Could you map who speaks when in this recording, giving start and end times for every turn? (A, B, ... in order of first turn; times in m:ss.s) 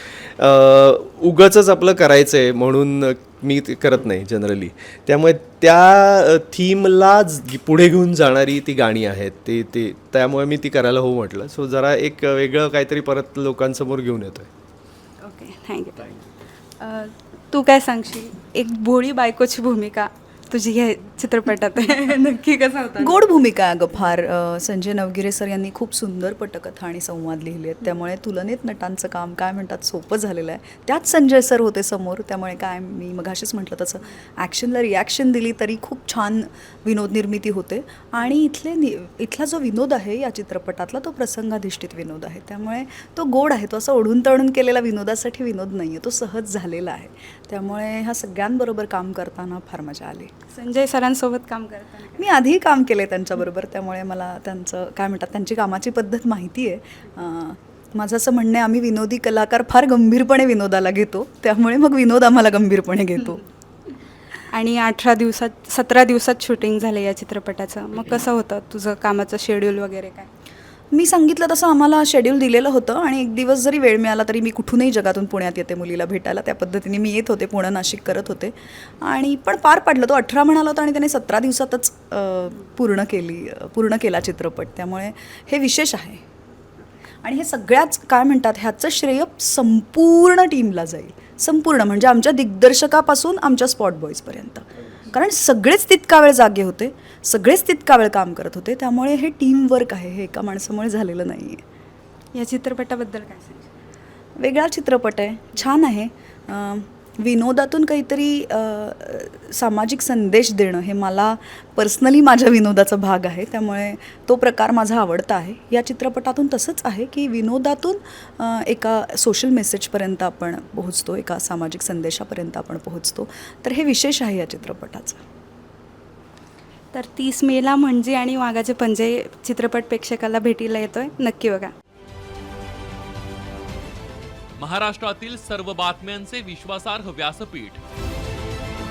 0:00.4-0:14.5 A
0:15.2-0:16.2 B
0:16.8-0:23.2 B
0:23.0-0:50.3 C
0:50.5-0:52.3 B
0:52.2-1:03.4 C
1:04.5-1:10.3 B
1:10.9-1:26.2 C
1:27.2-1:41.6 C
1:42.3-1:43.7 B
1:44.4-2:05.2 C
2:06.9-2:11.7 B
2:14.6-2:17.8 D